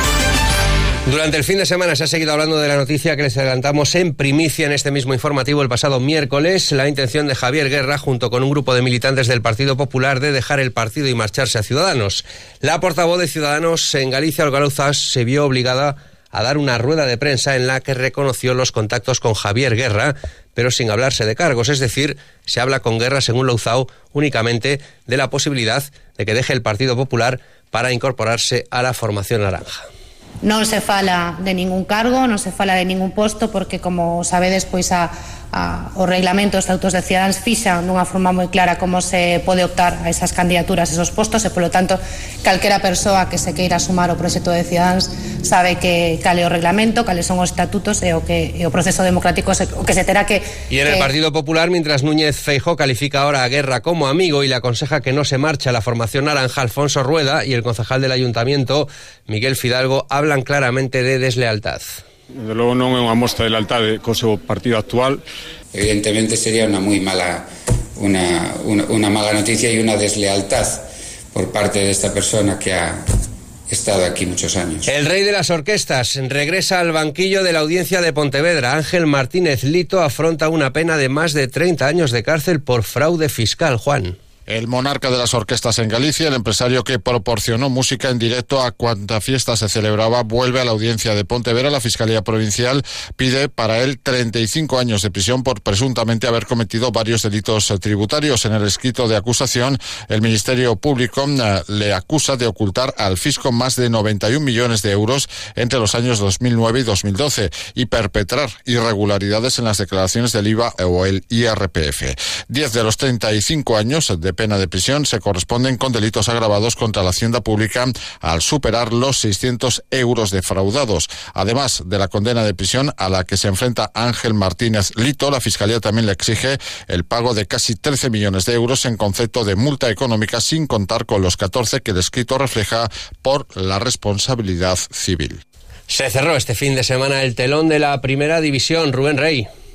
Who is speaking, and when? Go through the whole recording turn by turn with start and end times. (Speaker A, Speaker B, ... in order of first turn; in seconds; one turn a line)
Speaker A: 1.1-29.8
Speaker B: 30.4-51.1
Speaker A: 50.7-61.9
Speaker C: 62.4-65.2
Speaker D: 65.7-67.5
Speaker D: 68.0-73.0
Speaker D: 73.7-74.9
Speaker A: 74.9-84.2
Speaker E: 84.5-135.4
Speaker A: 135.9-139.5